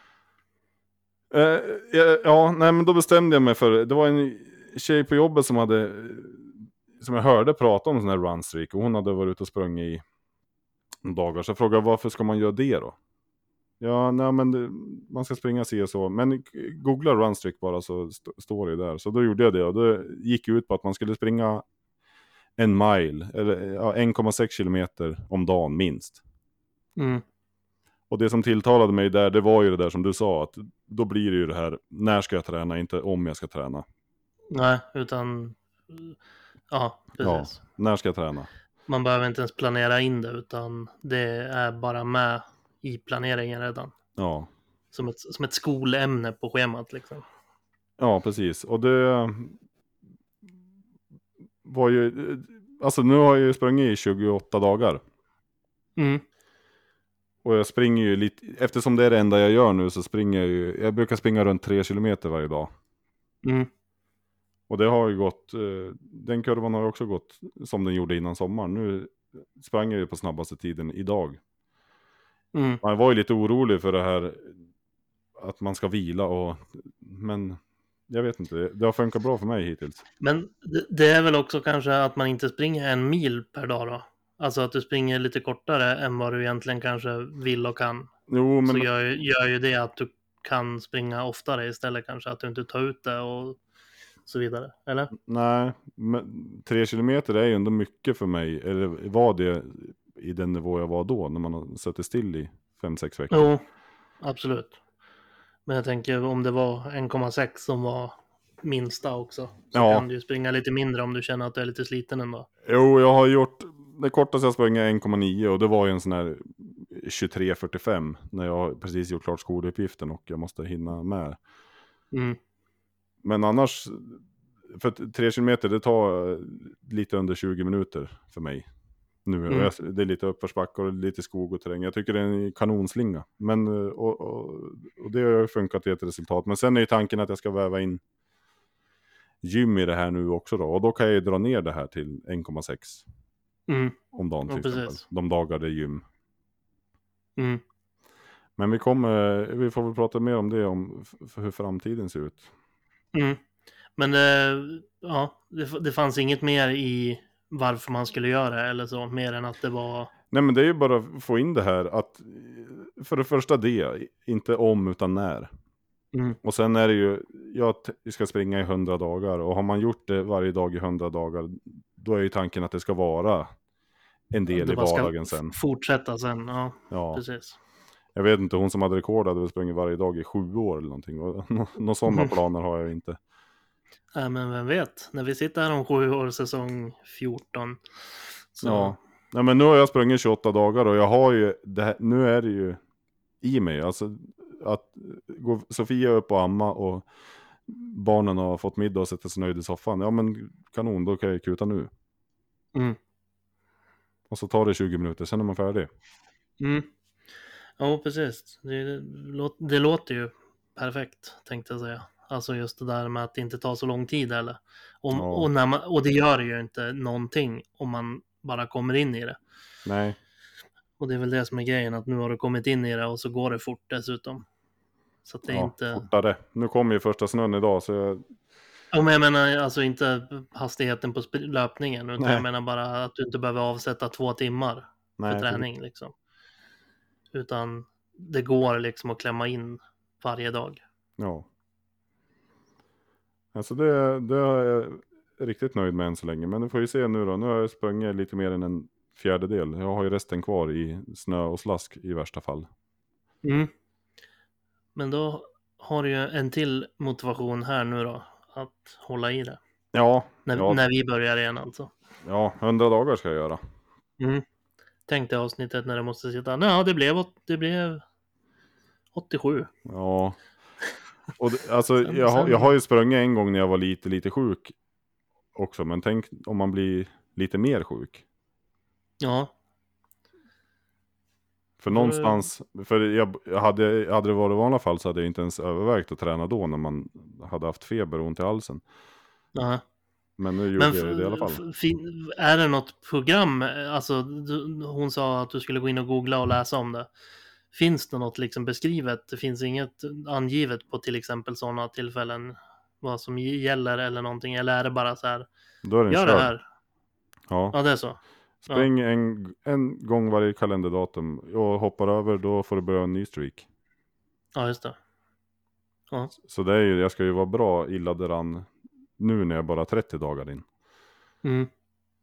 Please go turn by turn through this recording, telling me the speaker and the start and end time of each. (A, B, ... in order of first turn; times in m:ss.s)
0:01.3-0:10.0 A
0:11.0-0:13.0 A
0:13.8-0:21.6 A
0:22.6-0:26.2 A
0:27.0-0:27.2 B
0:28.1-0:33.8 A
0:34.5-0:36.1 B
0:36.7-0:37.6 B
0:37.2-0:38.5 A
0:38.9-0:43.9 B
0:44.2-0:44.5 A
0:44.9-0:47.2 B
0:48.0-0:49.6 A
0:51.6-0:55.0 A
0:56.0-0:56.2 B
0:57.4-1:02.7 A
1:03.4-1:03.7 B
1:04.7-1:11.4 A
1:12.5-1:12.8 B
1:12.8-1:14.6 A
1:15.4-1:20.0 A
1:20.2-1:28.1 B
1:28.3-1:28.9 A
1:28.6-1:33.6 B
1:34.2-1:35.1 B
1:35.1-1:43.5 A
1:43.3-1:43.6 B
1:44.2-1:44.8 B
1:45.6-1:52.5 B
1:49.7-1:50.0 A
1:52.6-2:01.4 A
2:02.1-2:02.4 B
2:03.2-2:08.7 A
2:09.2-2:18.0 A
2:19.4-2:23.0 A
2:23.7-2:25.0 B
2:24.1-2:26.0 A
2:27.4-2:27.6 B
2:28.6-2:32.4 A
2:33.1-2:33.4 B
2:34.0-2:40.1 B
2:40.3-2:45.5 A
2:46.4-2:53.5 A
2:54.3-2:55.5 A
2:54.5-2:57.6 B
2:56.9-2:57.2 A
2:58.1-3:03.2 A
3:04.1-3:07.8 B
3:08.5-3:09.0 B
3:08.6-3:12.8 A
3:13.4-3:17.1 A
3:17.7-3:21.9 A
3:24.3-3:25.9 A
3:26.6-3:26.9 B
3:27.8-3:39.4 B
3:35.1-3:35.5 A
3:39.8-3:40.2 A
3:41.0-3:44.4 B
3:45.2-3:46.0 B
3:45.5-3:48.2 A
3:48.9-3:56.1 B
3:52.2-3:52.4 A
3:55.2-3:55.6 A
3:57.3-4:00.8 B
4:01.2-4:01.4 A
4:03.5-4:12.7 A
4:13.4-4:13.7 B
4:14.9-4:19.6 B
4:19.9-4:20.8 A
4:20.4-4:21.9 B
4:22.2-4:23.6 A
4:24.2-4:24.4 B
4:25.1-4:28.0 B
4:29.1-4:29.7 B
4:29.8-4:30.4 A
4:31.4-4:34.7 A
4:32.0-4:32.7 B
4:35.5-4:38.2 A
4:39.2-4:39.5 B
4:41.8-4:48.8 A
4:41.9-4:42.4 B
4:49.5-4:49.8 B
4:50.4-4:51.6 A
4:50.8-4:57.1 B
4:57.7-5:05.5 B
5:05.8-5:06.5 A
5:06.1-5:06.6 B
5:07.5-5:07.8 A
5:07.7-5:08.9 B
5:08.7-5:13.6 A
5:14.5-5:15.0 B
5:16.4-5:20.6 A
5:21.4-5:21.7 B